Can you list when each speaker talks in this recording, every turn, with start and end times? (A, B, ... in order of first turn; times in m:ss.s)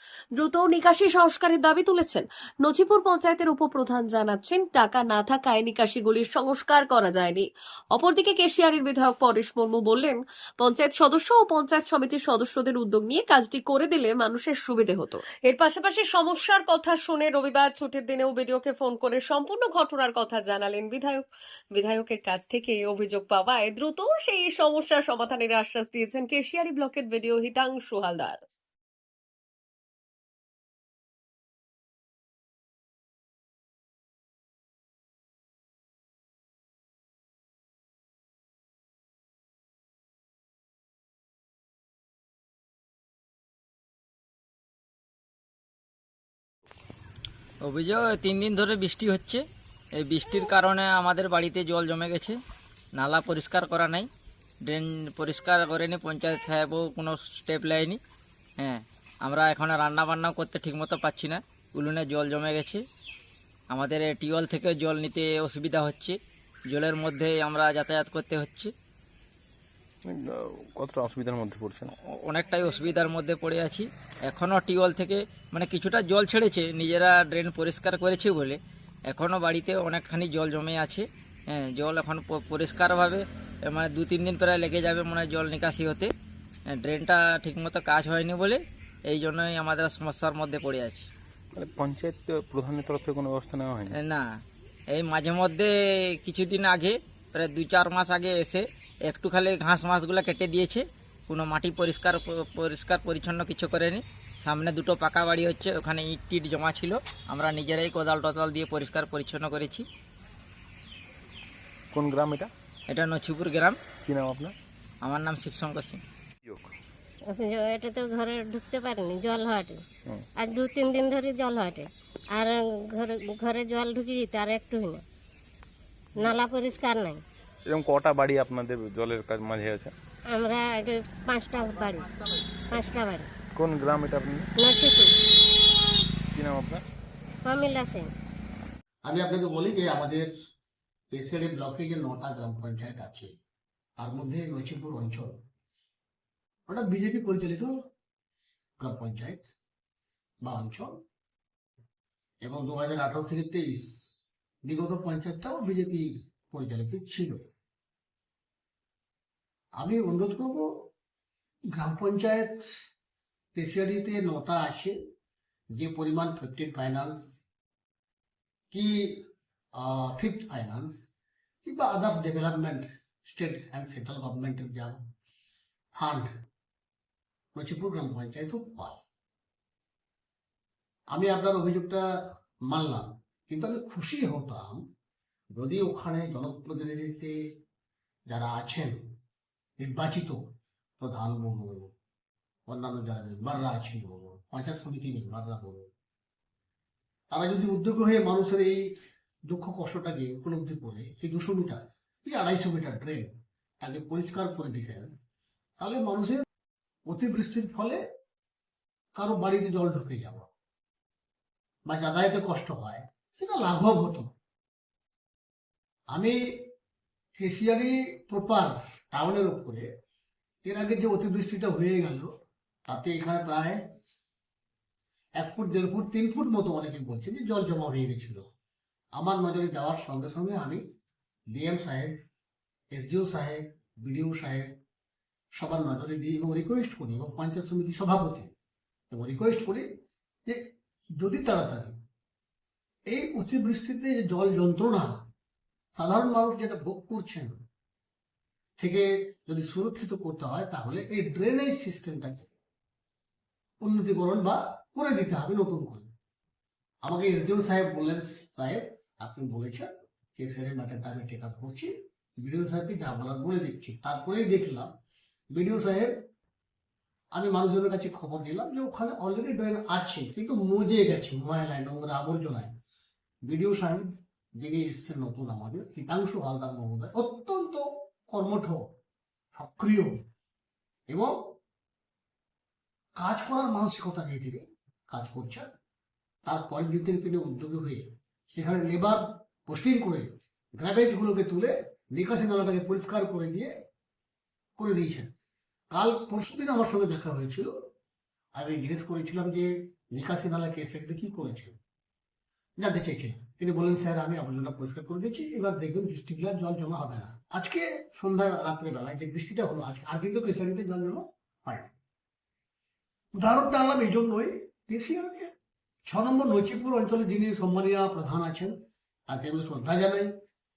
0:00.4-0:28.4 A
0:47.6-0:49.4 B
0:50.0-0:52.4 B
0:53.0-0:54.1 B
0:54.7-0:58.0 B
0:58.6-1:02.8 B
1:03.7-1:06.2 B
1:06.7-1:08.7 B
1:10.1-1:11.9 C
1:12.3-1:18.6 B
1:19.1-1:26.1 B
1:26.8-1:31.1 B
1:31.6-1:34.0 C
1:34.9-1:35.7 B
1:36.2-1:49.9 B
1:51.9-1:52.5 C
1:52.9-1:53.8 B
1:54.1-1:54.6 C
1:55.0-1:56.0 B
1:57.3-1:59.8 D
2:00.4-2:05.0 D
2:06.2-2:07.2 D
2:07.7-2:09.9 C
2:10.3-2:12.1 D
2:12.7-2:13.3 D
2:13.6-2:14.5 C
2:14.6-2:15.2 D
2:16.3-2:16.8 C
2:17.4-2:18.1 D
2:19.0-2:20.3 E
2:21.1-2:23.3 E
2:24.0-2:25.4 E
2:26.7-2:27.7 E
2:28.8-2:29.5 E
2:30.4-2:31.0 E
2:32.4-2:33.9 E
2:34.7-2:37.4 E
2:39.8-2:40.7 E
2:41.7-2:42.6 E
2:43.6-2:45.0 E
2:45.8-2:47.2 E
2:48.7-2:49.3 E
2:49.8-2:51.0 E
2:51.6-2:55.0 E
2:56.0-2:56.4 E
2:57.6-2:59.0 E
3:01.1-3:02.0 E
3:02.7-3:04.8 E
3:05.6-3:07.4 E
3:08.3-3:09.0 E
3:09.8-3:10.4 E
3:11.0-3:11.9 E
3:12.7-3:15.9 E
3:17.3-3:18.9 E
3:19.5-3:25.1 E
3:25.8-3:26.4 E
3:27.1-3:28.0 E
3:29.2-3:30.5 E
3:31.9-3:34.3 E
3:36.1-3:36.4 E
3:37.4-3:39.9 E
3:40.6-3:42.3 E
3:42.9-3:43.8 E
3:45.4-3:48.4 E
3:49.2-3:50.8 E
3:51.5-3:52.2 E
3:52.9-3:54.7 E
3:55.6-3:58.5 E
3:59.1-3:59.9 E
4:01.2-4:02.0 E
4:03.1-4:05.1 E
4:06.0-4:07.5 E
4:08.8-4:12.5 E
4:13.8-4:16.1 E
4:17.0-4:24.9 E
4:25.5-4:26.1 E
4:27.3-4:32.8 E
4:33.5-4:38.8 E
4:39.5-4:40.2 E
4:43.2-4:45.7 E
4:46.5-4:53.7 E
4:54.8-4:55.3 E
4:55.9-4:57.7 E
4:58.6-5:01.8 E
5:02.8-5:11.9 E
5:13.4-5:15.5 E
5:16.1-5:18.7 E
5:19.3-5:20.3 E